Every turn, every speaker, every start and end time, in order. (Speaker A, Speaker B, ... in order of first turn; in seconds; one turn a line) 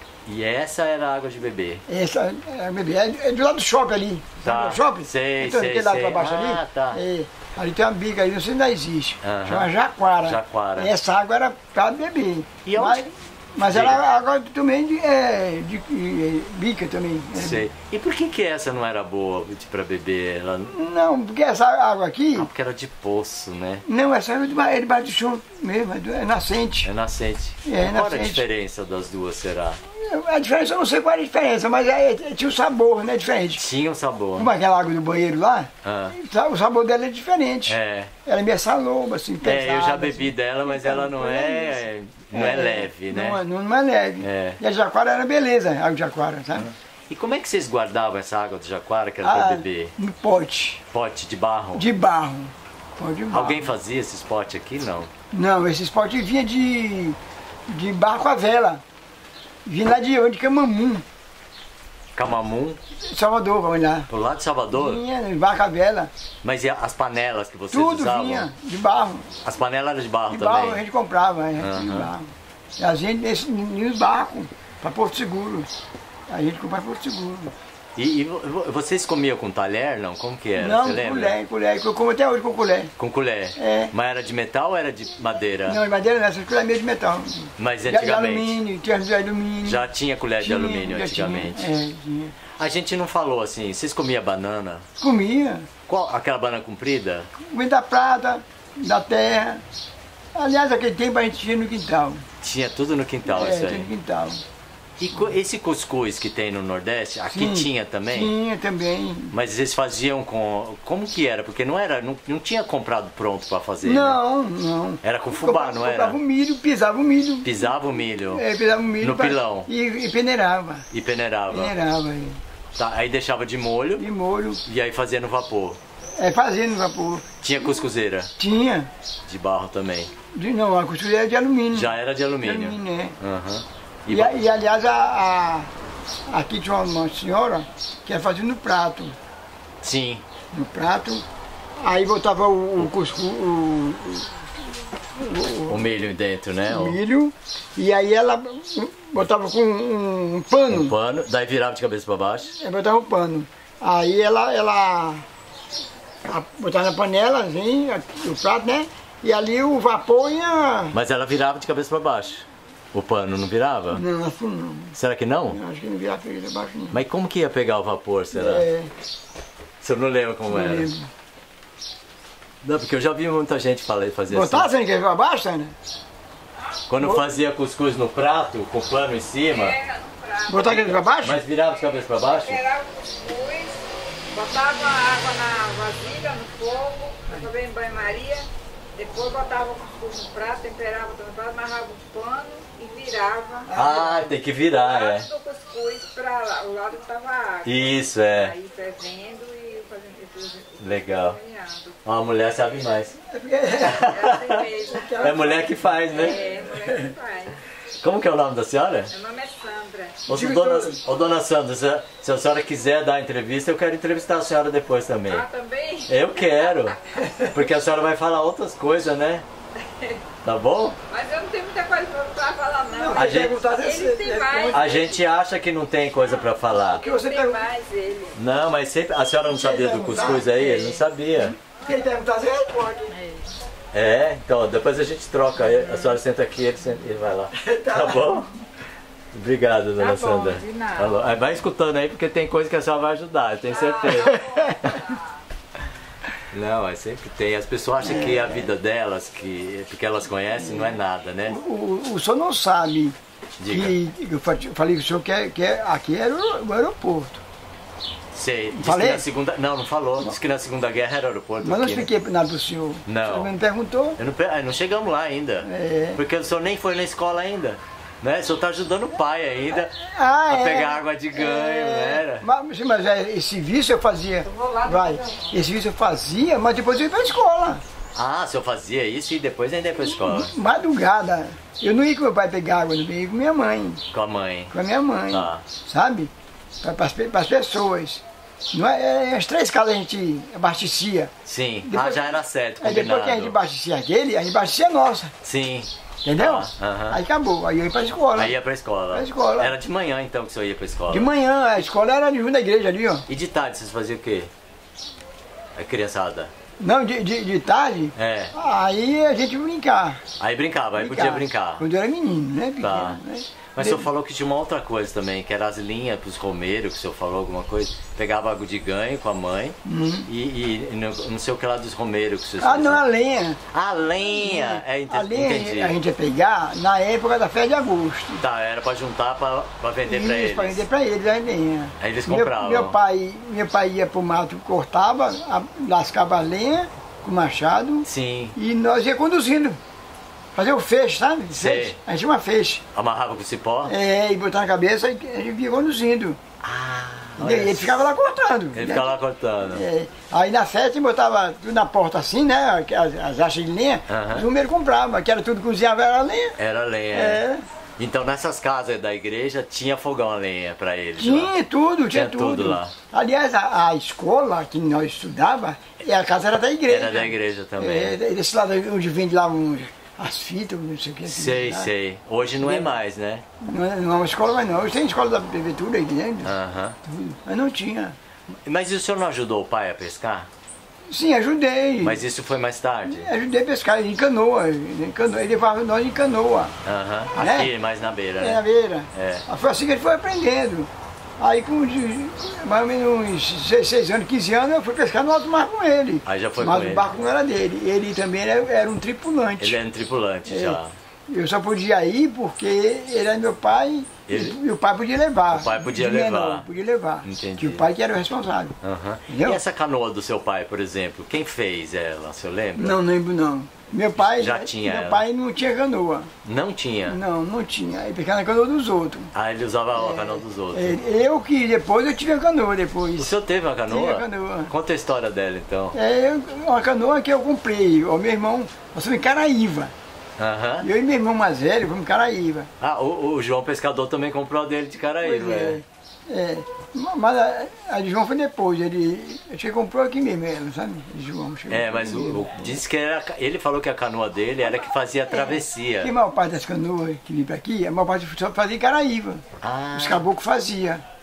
Speaker A: 0.2-1.8
Speaker B: 1.9-17.6
Speaker A: 4.4-7.0
Speaker A: 9.2-10.9
Speaker A: 12.6-13.0
Speaker A: 13.6-14.0
Speaker A: 17.4-20.7
Speaker B: 20.7-22.5
Speaker A: 22.3-23.8
Speaker B: 23.8-26.9
Speaker A: 26.8-29.8
Speaker B: 27.6-28.4
Speaker B: 29.9-33.6
Speaker A: 33.5-34.5
Speaker B: 34.4-46.7
Speaker A: 35.8-36.1
Speaker A: 37.7-38.1
Speaker A: 39.4-43.4
Speaker A: 44.2-44.6
Speaker A: 46.6-49.9
Speaker B: 49.2-50.8
Speaker A: 50.9-51.9
Speaker B: 51.7-53.6
Speaker A: 53.3-55.1
Speaker B: 55.3-57.2
Speaker B: 57.7-58.8
Speaker B: 59.6-61.0
Speaker A: 62.1-62.8
Speaker B: 63.0-64.1
Speaker A: 64.1-65.0
Speaker B: 64.7-66.1
Speaker A: 66.4-68.5
Speaker B: 67.7-69.3
Speaker A: 69.4-70.8
Speaker B: 70.3-75.7
Speaker A: 71.6-72.1
Speaker B: 76.3-77.5
Speaker A: 78.0-81.3
Speaker B: 80.6-82.9
Speaker A: 83.0-85.8
Speaker B: 83.5-83.9
Speaker B: 85.7-89.9
Speaker A: 87.6-88.6
Speaker A: 89.6-91.7
Speaker B: 90.4-92.3
Speaker A: 92.5-94.8
Speaker B: 95.0-95.7
Speaker A: 95.9-97.3
Speaker B: 97.4-99.6
Speaker B: 100.3-102.2
Speaker A: 102.4-103.9
Speaker B: 103.2-104.4
Speaker A: 105.0-108.3
Speaker B: 107.3-109.3
Speaker A: 109.3-114.2
Speaker B: 113.8-117.5
Speaker A: 115.0-116.2
Speaker A: 117.4-118.4
Speaker B: 118.3-120.9
Speaker A: 119.0-119.7
Speaker A: 120.9-121.7
Speaker B: 121.5-122.4
Speaker A: 122.7-124.0
Speaker B: 124.0-124.6
Speaker A: 124.7-125.8
Speaker B: 126.2-127.3
Speaker A: 127.4-128.3
Speaker B: 128.4-128.9
Speaker A: 129.2-130.1
Speaker B: 130.3-133.2
Speaker A: 131.7-134.4
Speaker B: 134.1-135.7
Speaker B: 136.3-139.1
Speaker A: 139.8-140.2
Speaker B: 140.5-141.2
Speaker B: 141.8-144.3
Speaker B: 145.1-145.8
Speaker A: 145.7-147.0
Speaker B: 146.7-150.9
Speaker A: 150.7-152.5
Speaker B: 152.6-155.2
Speaker B: 156.2-160.9
Speaker A: 160.9-164.0
Speaker B: 163.9-164.9
Speaker A: 164.9-165.6
Speaker B: 165.5-167.0
Speaker A: 166.9-168.6
Speaker B: 168.3-168.9
Speaker A: 169.8-170.9
Speaker B: 170.5-171.1
Speaker A: 172.6-174.7
Speaker B: 174.3-175.7
Speaker A: 176.9-179.8
Speaker C: 179.5-180.9
Speaker B: 180.5-181.4
Speaker A: 180.6-182.6
Speaker C: 182.3-193.7
Speaker B: 193.7-194.2
Speaker A: 193.7-195.3
Speaker C: 194.7-202.0
Speaker A: 197.6-198.5
Speaker A: 200.8-201.4
Speaker A: 202.0-203.2
Speaker B: 203.3-204.2
Speaker A: 203.8-206.4
Speaker C: 203.9-207.6
Speaker B: 204.9-205.4
Speaker A: 208.0-209.1
Speaker C: 209.1-210.2
Speaker A: 210.3-215.4
Speaker B: 210.3-211.0
Speaker C: 215.3-217.2
Speaker A: 216.1-217.0
Speaker B: 217.2-217.5
Speaker A: 217.5-219.4
Speaker C: 219.8-220.2
Speaker A: 220.4-221.0
Speaker C: 221.1-225.2
Speaker B: 222.9-225.0
Speaker A: 223.1-223.6
Speaker A: 224.7-227.0
Speaker C: 226.7-228.3
Speaker B: 227.0-227.6
Speaker A: 228.3-231.5
Speaker B: 229.5-233.2
Speaker A: 233.9-238.5
Speaker B: 237.5-238.3
Speaker A: 239.3-244.4
Speaker C: 240.0-241.2
Speaker C: 243.7-245.2
Speaker B: 244.2-244.9
Speaker A: 246.5-251.6
Speaker B: 248.0-248.7
Speaker B: 250.6-253.2
Speaker A: 253.6-253.9
Speaker B: 253.7-257.4
Speaker A: 258.3-262.1
Speaker B: 258.7-259.2
Speaker B: 261.6-264.2
Speaker A: 263.1-263.5
Speaker A: 264.2-269.9
Speaker B: 265.6-266.2
Speaker B: 269.9-277.8
Speaker A: 270.5-272.4
Speaker C: 274.5-275.5
Speaker A: 278.1-280.5
Speaker B: 280.1-284.0
Speaker A: 284.1-284.7
Speaker B: 284.7-286.3
Speaker A: 285.3-285.6
Speaker B: 286.8-291.3
Speaker A: 291.4-293.6
Speaker B: 291.8-295.3
Speaker A: 295.4-297.2
Speaker B: 296.2-298.5
Speaker A: 298.3-301.3
Speaker B: 299.1-299.8
Speaker B: 301.1-303.2
Speaker A: 303.3-304.5
Speaker A: 305.7-306.5
Speaker B: 306.8-310.2
Speaker A: 308.1-308.5
Speaker A: 310.4-311.9
Speaker B: 311.0-314.0
Speaker A: 312.8-313.2
Speaker A: 313.7-323.0
Speaker B: 319.8-320.3
Speaker B: 322.6-323.6
Speaker A: 323.7-326.0
Speaker B: 324.4-328.4
Speaker A: 328.4-330.8
Speaker B: 330.0-339.8
Speaker A: 332.0-333.0
Speaker A: 338.0-338.6
Speaker B: 340.6-342.8
Speaker A: 341.5-342.0
Speaker A: 342.9-343.9
Speaker B: 343.8-346.4
Speaker A: 346.6-348.1
Speaker B: 347.4-349.1
Speaker A: 348.7-349.8
Speaker B: 349.7-356.6
Speaker A: 354.1-354.5
Speaker A: 356.6-357.4
Speaker B: 357.1-357.6
Speaker A: 358.0-361.5
Speaker B: 361.2-371.9
Speaker A: 362.1-362.9
Speaker A: 366.9-368.2
Speaker A: 371.3-373.4
Speaker B: 372.6-372.9
Speaker B: 373.6-376.5
Speaker A: 376.4-377.0
Speaker B: 377.0-378.1
Speaker A: 378.5-380.5
Speaker B: 381.1-382.2
Speaker A: 382.0-383.3
Speaker B: 383.0-386.7
Speaker A: 386.8-389.4
Speaker B: 387.3-387.7
Speaker B: 388.4-399.8
Speaker A: 396.2-397.1
Speaker A: 399.6-400.9
Speaker B: 400.5-408.8
Speaker A: 404.3-404.6
Speaker A: 405.5-406.6
Speaker A: 407.2-407.9
Speaker A: 408.8-413.0
Speaker B: 409.3-409.6
Speaker B: 412.8-416.3
Speaker A: 414.1-415.2
Speaker A: 416.4-417.2
Speaker B: 417.1-419.3
Speaker A: 419.3-421.0
Speaker B: 419.9-423.3
Speaker A: 423.2-425.9
Speaker B: 423.9-424.7
Speaker B: 425.9-429.9
Speaker A: 430.4-430.9
Speaker B: 430.8-432.7
Speaker A: 432.8-435.8
Speaker B: 435.2-442.8
Speaker A: 441.7-446.1
Speaker B: 445.3-449.4
Speaker A: 449.6-450.2
Speaker B: 449.9-451.0